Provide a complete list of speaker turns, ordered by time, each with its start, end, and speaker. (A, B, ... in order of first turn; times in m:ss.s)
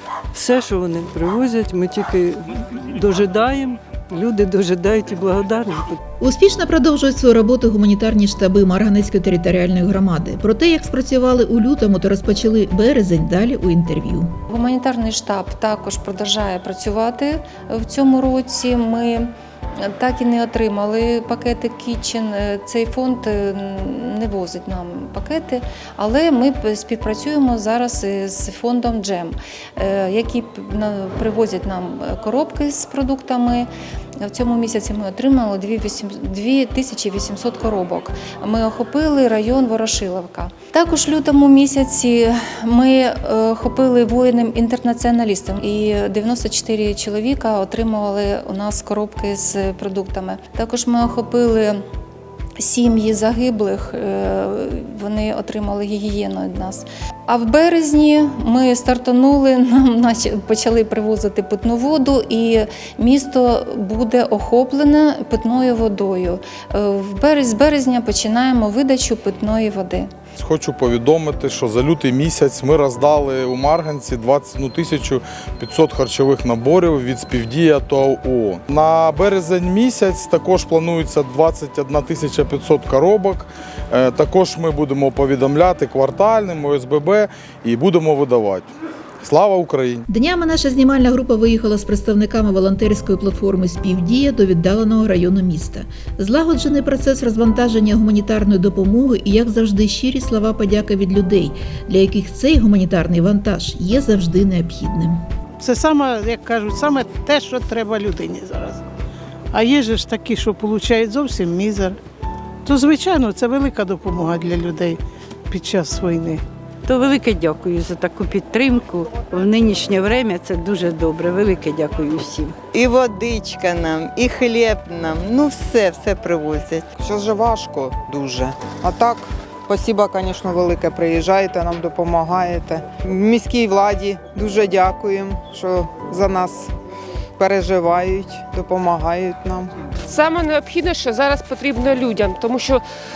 0:00.3-0:06.0 A
0:06.2-0:14.3 B
0:14.5-0:33.7 C
0:34.2-0:51.8 C
0:52.6-1:10.1 C
1:10.4-1:28.7 D
1:29.2-1:30.0 D
1:30.1-1:45.2 B
1:45.6-1:48.8 E
1:49.5-1:52.0 E
1:52.6-1:55.0 E
1:55.5-1:56.4 E
1:56.9-2:02.6 F
2:02.7-2:06.9 G
2:07.0-2:16.7 H
2:17.4-2:19.7 H
2:20.1-2:22.8 I